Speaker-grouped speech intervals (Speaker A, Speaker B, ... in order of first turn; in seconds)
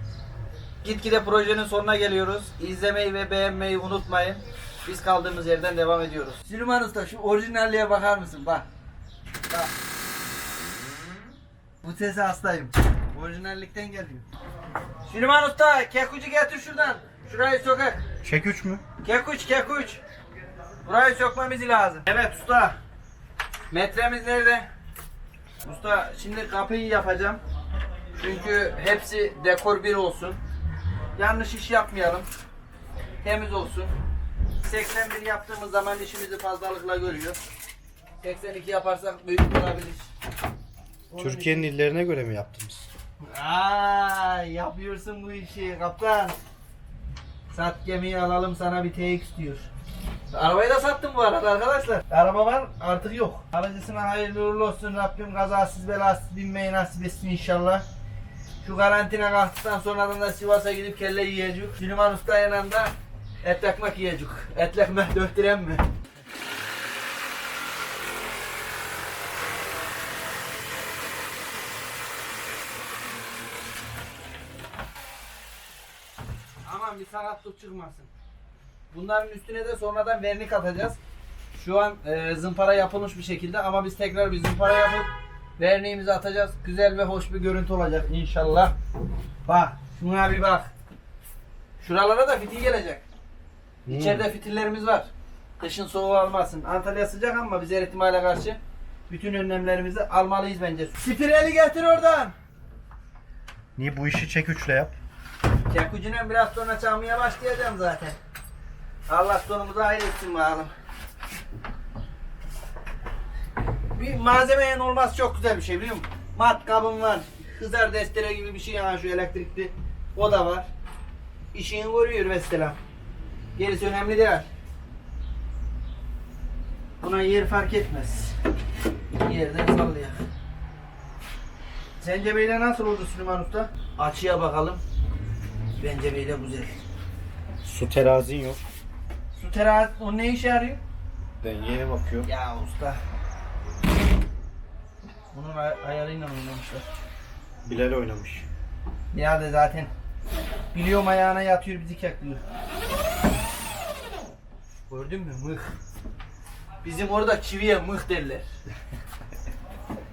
Speaker A: 0.8-8.7, 11.8-14.2, 15.1-18.0, 19.0-20.0, 20.8-22.8, 23.7-24.7, 25.6-27.4, 28.1-30.4, 31.1-32.3, 33.2-33.9, 34.6-37.4, 38.2-40.1, 41.1-41.7, 43.2-46.4, 47.5-49.7, 50.3-57.8, 58.6-65.9, 76.6-78.1, 78.9-81.0, 81.5-88.7, 89.5-90.7, 91.8-93.0, 93.9-102.3, 105.7-108.2, 109.1-110.7, 113.9-120.7, 121.5-122.8, 123.5-124.5, 127.0-128.3, 129.1-130.2, 132.0-134.8, 135.8-136.7, 139.3-140.8, 142.2-143.0, 145.3-146.9, 149.1-149.9, 150.7-152.4, 154.9-155.7, 156.8-158.5
Speaker B: 18.2-18.8, 41.2-42.9, 93.8-94.2, 103.8-104.9, 137.6-138.6, 141.4-142.3, 147.6-148.4